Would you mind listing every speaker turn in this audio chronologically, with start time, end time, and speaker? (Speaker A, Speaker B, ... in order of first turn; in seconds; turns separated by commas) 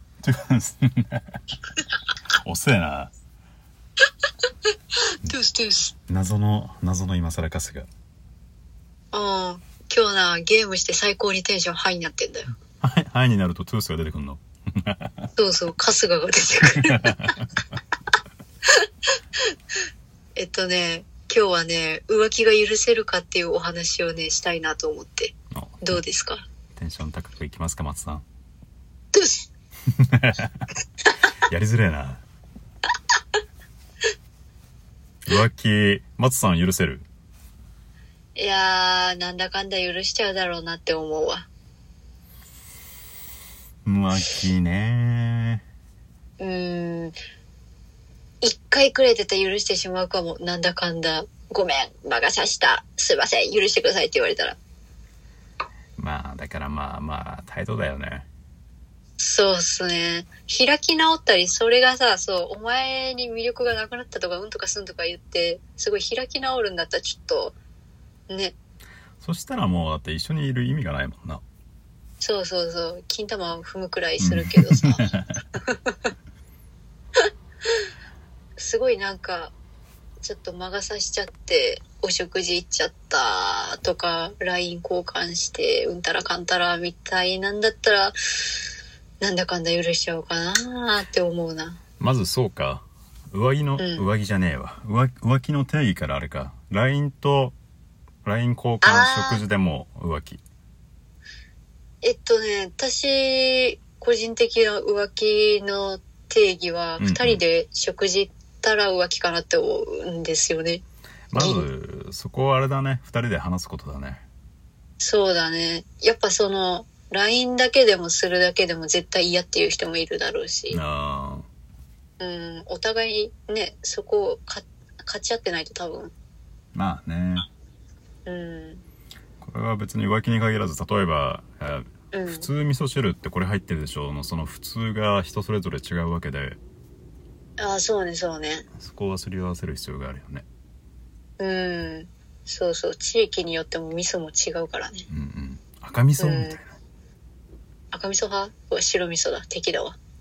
Speaker A: 0.2-1.2, Speaker A: 2.4-3.1, Speaker B: 5.2-5.9, Speaker A: 6.1-7.9, Speaker B: 9.1-12.5, Speaker A: 12.8-15.3, Speaker B: 15.3-17.3, Speaker A: 16.9-17.3, Speaker B: 20.4-26.4, Speaker A: 25.5-26.0, Speaker A: 26.7-28.2, Speaker B: 29.1-29.5, Speaker A: 30.0-30.5, Speaker A: 31.5-32.2, Speaker A: 35.2-37.1, Speaker B: 38.4-41.5, Speaker A: 43.8-45.6, Speaker B: 46.4-47.1, Speaker B: 48.4-54.6, Speaker A: 56.0-58.3, Speaker B: 59.2-67.5, Speaker B: 68.3-68.5, Speaker A: 69.2-71.4, Speaker B: 72.2-75.0, Speaker A: 74.2-75.4, Speaker B: 75.7-76.0, Speaker B: 78.6-79.5, Speaker B: 80.2-88.2, Speaker B: 89.2-91.8, Speaker A: 92.0-97.5, Speaker B: 93.8-94.0, Speaker A: 98.2-100.4, Speaker B: 98.8-99.4, Speaker B: 102.0-110.8, Speaker A: 107.0-107.4, Speaker A: 111.3-114.2, Speaker B: 111.3-111.6, Speaker B: 115.0-120.8, Speaker A: 120.7-121.5, Speaker B: 122.2-126.1, Speaker A: 126.7-127.5, Speaker B: 128.2-128.8, Speaker A: 129.4-136.6, Speaker B: 132.1-132.5, Speaker B: 137.6-138.7, Speaker A: 138.8-140.4, Speaker B: 141.4-145.1, Speaker A: 145.1-146.7, Speaker B: 146.2-146.6, Speaker B: 147.9-150.0